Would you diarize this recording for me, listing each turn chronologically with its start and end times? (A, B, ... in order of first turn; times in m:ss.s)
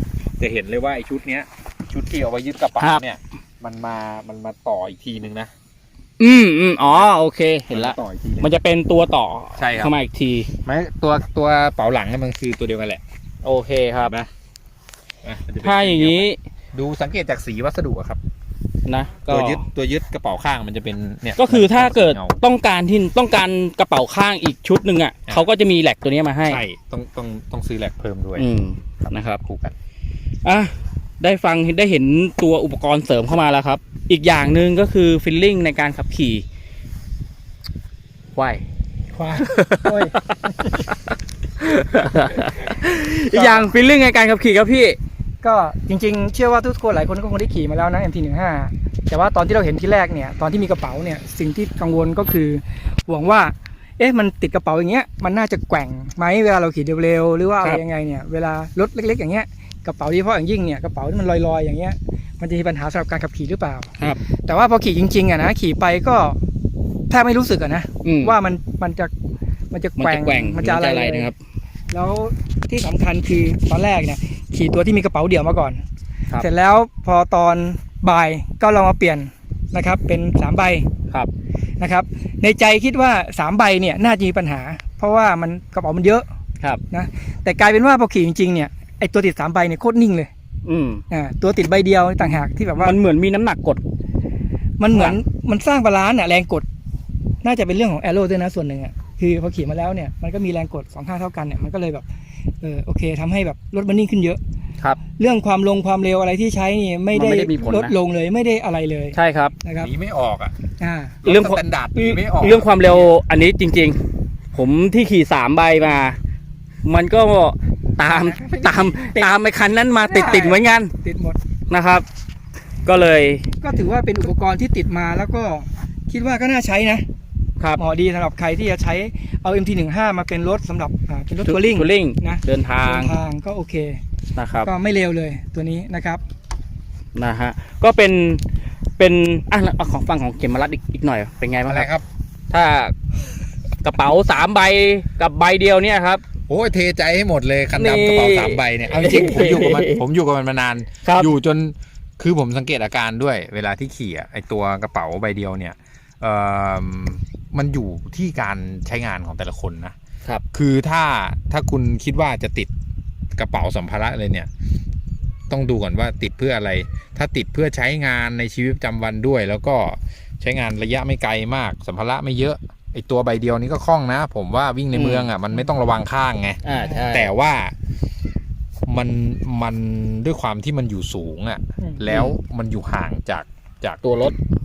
0:00.4-0:05.5 A
0:06.2-0:10.5 B
0:06.8-0:07.1 A
0:07.7-0:08.5 A
0:09.6-0:09.9 A
0:10.6-0:13.0 A
0:13.4-0:14.1 B
0:14.0-0:14.3 A
0:15.2-0:18.2 A
0:15.6-0:16.4 B
0:18.8-0:19.6 B
0:19.3-0:22.4 A
0:21.4-0:26.6 B
0:26.4-0:28.5 A
0:28.4-0:29.4 B
0:29.0-0:29.7 A
0:30.4-0:36.4 B
0:38.4-0:38.6 B
0:39.1-0:40.2 C
0:39.3-0:40.3 B
0:41.6-0:45.0 B
0:43.3-0:43.7 C
0:45.4-1:03.9 C
1:04.4-1:06.4 C
1:07.1-1:09.1 C
1:08.0-1:08.4 B
1:09.7-1:11.3 C
1:10.0-1:11.3 B
1:11.9-1:15.8 C
1:16.4-1:20.9 C
1:21.8-1:26.2 C
1:26.9-1:30.3 C
1:30.6-1:31.0 B
1:31.1-1:33.0 C
1:32.8-1:33.8 B
1:34.8-1:36.6 C
1:34.9-1:35.2 B
1:37.4-1:42.0 C
1:42.6-1:44.4 C
1:45.2-1:49.9 C
1:47.1-1:47.9 B
1:49.1-1:49.5 B
1:49.8-1:50.5 A
1:50.8-1:51.2 C
1:51.2-1:53.1 A
1:51.2-1:54.0 B
1:54.5-1:56.2 B
1:56.8-2:00.9 B
1:58.0-1:59.3 C
2:00.0-2:01.4 C
2:01.7-2:02.0 B
2:02.8-2:03.4 B
2:03.6-2:07.0 C
2:07.8-2:14.0 C
2:11.4-2:13.2 B
2:14.4-2:14.7 B
2:14.6-2:16.2 C
2:17.1-2:18.4 B
2:19.0-2:21.9 B
2:21.7-2:22.0 A
2:22.5-2:22.9 B
2:23.8-2:26.2 B
2:26.5-2:40.0 A
2:27.8-2:30.0 B
2:31.0-2:31.3 B
2:40.5-2:42.7 A
2:43.3-2:44.5 A
2:45.5-2:56.6 A
2:54.9-2:55.3 B
2:56.6-2:57.3 B
2:57.1-2:57.7 A
2:58.9-3:04.0 A
3:04.0-3:04.4 B